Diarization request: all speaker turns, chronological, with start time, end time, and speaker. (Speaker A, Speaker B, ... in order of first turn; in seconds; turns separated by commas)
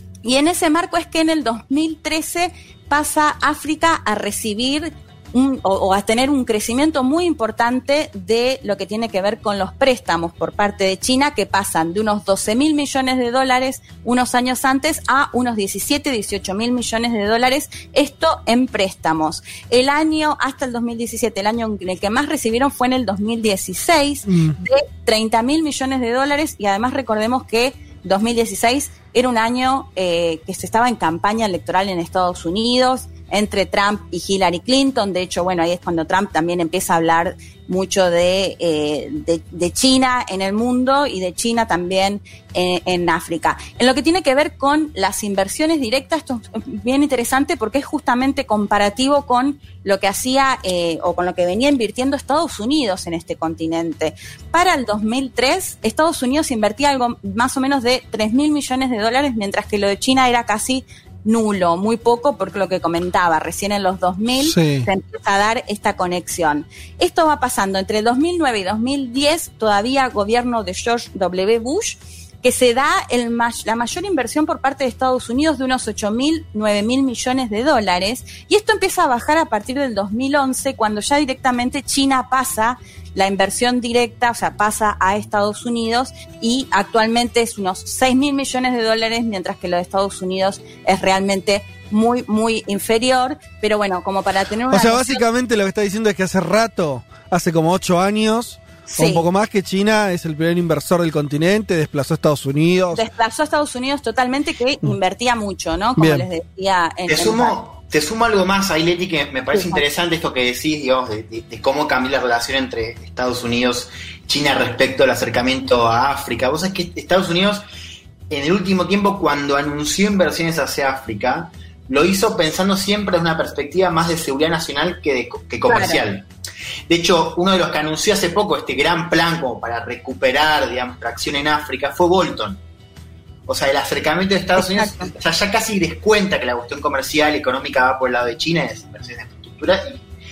Speaker A: 0.2-95.2, Speaker B: 24.3-24.6, Speaker B: 64.4-64.9, Speaker B: 94.7-103.0, Speaker A: 98.9-99.2, Speaker A: 102.9-107.5, Speaker B: 106.0-106.3, Speaker C: 107.1-117.6, Speaker A: 109.5-109.8, Speaker C: 118.3-126.3, Speaker A: 125.7-126.0, Speaker C: 126.9-132.6, Speaker C: 133.5-140.0, Speaker A: 134.6-135.1